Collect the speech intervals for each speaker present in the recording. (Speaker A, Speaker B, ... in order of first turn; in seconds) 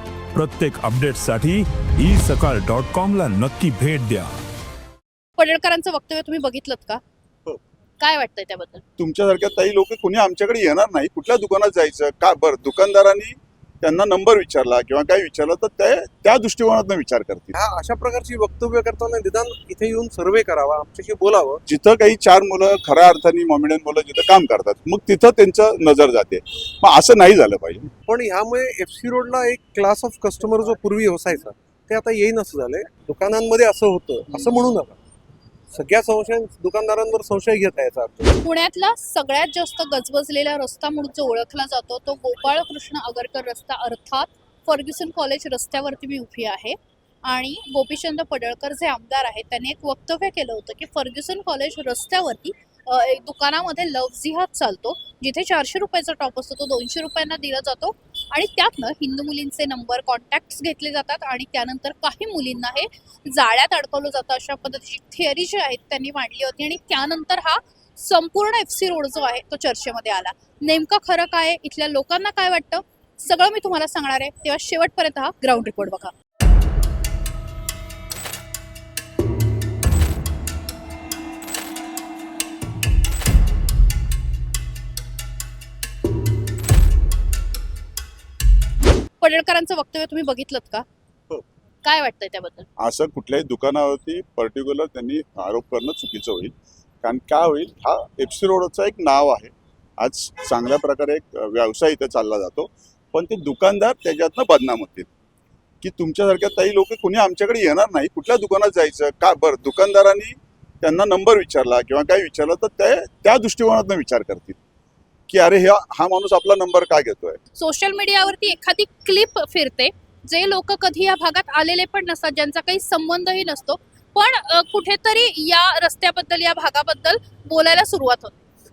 Speaker A: 0.3-4.3
Speaker B: 5.4-7.0, 8.0-8.8, 38.4-76.1, 89.2-90.8, 91.8-92.7, 117.5-128.4
Speaker C: 9.0-17.6, 21.6-27.9, 92.8-105.1, 105.8-114.6, 115.3-117.4
Speaker D: 17.5-21.6, 28.1-35.0, 35.7-38.3